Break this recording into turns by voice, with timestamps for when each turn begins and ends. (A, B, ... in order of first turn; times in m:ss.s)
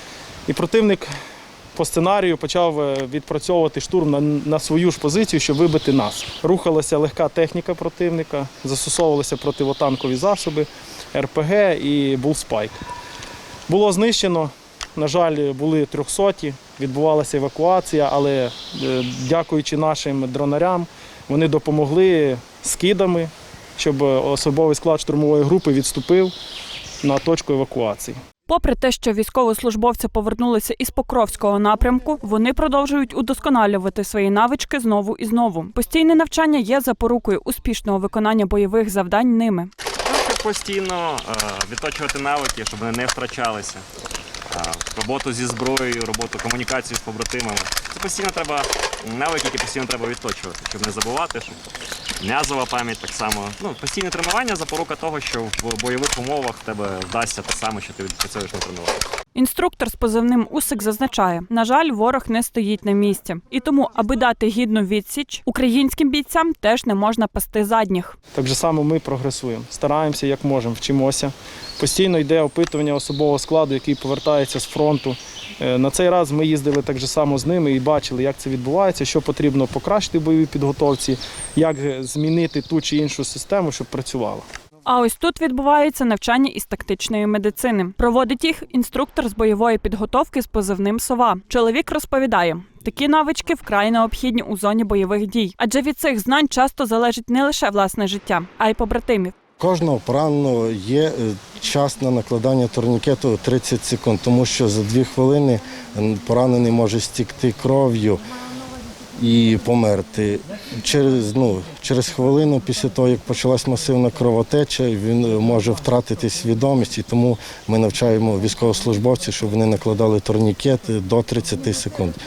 0:00.5-0:01.1 A
0:01.8-0:12.8 A
0:13.7-0:26.3 A
0:27.0-0:28.2 A
0:28.5-0:39.7 B
0:40.1-0:43.8 C
0:44.5-0:51.6 C
0:52.2-0:59.0 C
0:59.3-1:08.2 B
1:08.3-1:24.5 A
1:24.9-1:39.3 B
1:39.6-1:48.2 D
1:49.2-2:02.2 D